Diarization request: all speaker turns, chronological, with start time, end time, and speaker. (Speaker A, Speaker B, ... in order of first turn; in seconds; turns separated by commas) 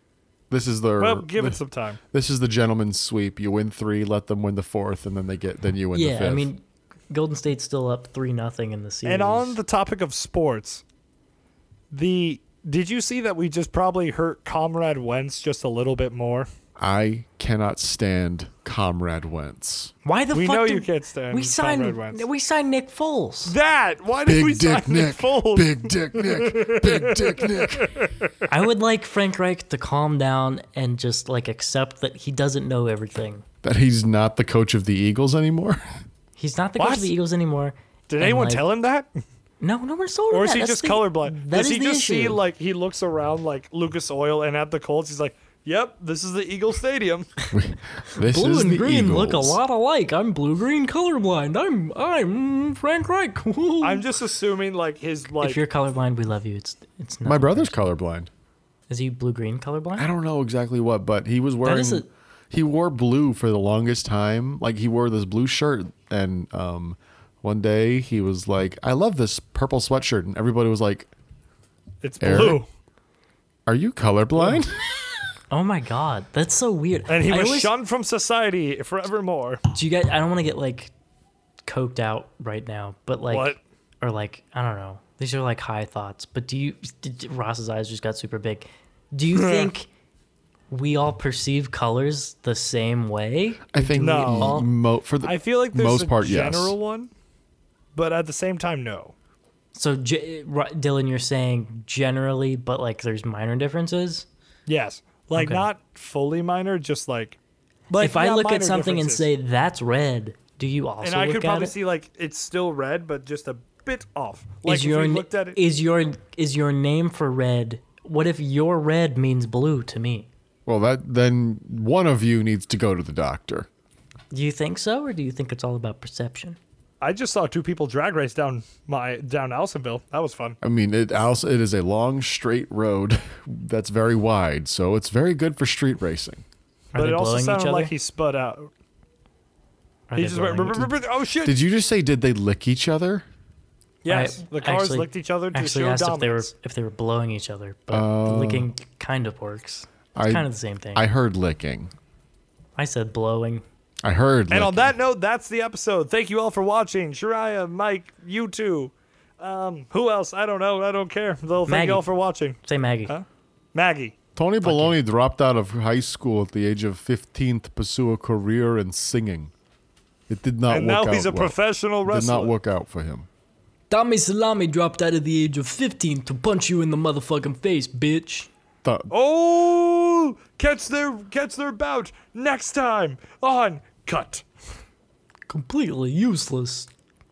Speaker A: 0.5-1.6, Speaker B: 1.0-2.0, Speaker A: 2.1-6.5, Speaker C: 5.9-9.6, Speaker B: 9.1-10.8, Speaker B: 11.9-16.5, Speaker A: 16.8-19.9, Speaker C: 20.1-23.6, Speaker B: 20.3-22.3, Speaker B: 23.5-28.5, Speaker A: 24.2-28.0, Speaker C: 28.5-33.4, Speaker A: 33.6-35.8, Speaker C: 36.4-38.7, Speaker B: 36.8-37.1, Speaker B: 38.1-39.1, Speaker C: 39.6-42.4, Speaker B: 40.3-47.3, Speaker A: 47.5-49.6, Speaker C: 48.2-54.1, Speaker B: 53.8-55.6, Speaker C: 55.4-57.8, Speaker A: 57.2-58.3, Speaker C: 58.9-60.1, Speaker A: 60.0-71.1, Speaker C: 61.6-62.1, Speaker B: 72.0-72.7, Speaker A: 72.2-72.6, Speaker A: 73.7-74.8, Speaker C: 75.5-77.7, Speaker B: 77.1-79.6, Speaker C: 79.7-80.9, Speaker C: 81.7-89.9, Speaker B: 83.3-83.6, Speaker B: 89.3-89.7, Speaker C: 90.7-94.7, Speaker A: 93.7-96.8, Speaker B: 94.0-94.7, Speaker B: 95.2-97.1, Speaker B: 98.0-99.1, Speaker C: 99.7-104.3, Speaker B: 104.7-107.4, Speaker C: 105.3-105.7, Speaker B: 107.9-109.3, Speaker C: 108.0-111.7, Speaker B: 111.0-115.6, Speaker C: 114.7-120.3, Speaker A: 120.7-123.7, Speaker C: 124.3-126.6, Speaker B: 127.0-130.6, Speaker A: 130.6-136.4, Speaker C: 136.9-137.9, Speaker B: 136.9-138.7, Speaker C: 140.1-140.9, Speaker B: 140.2-141.6, Speaker A: 141.4-143.3, Speaker B: 144.0-146.5, Speaker C: 144.1-151.1, Speaker A: 147.9-148.7, Speaker A: 150.2-151.9, Speaker C: 152.8-153.6, Speaker A: 154.0-154.9, Speaker B: 154.5-164.1, Speaker C: 161.7-162.1, Speaker C: 162.6-163.1, Speaker A: 164.3-169.5, Speaker C: 164.6-165.0, Speaker A: 170.3-173.3, Speaker B: 170.7-172.5, Speaker C: 173.9-178.5, Speaker A: 178.8-179.1, Speaker B: 179.1-184.4, Speaker C: 185.5-186.9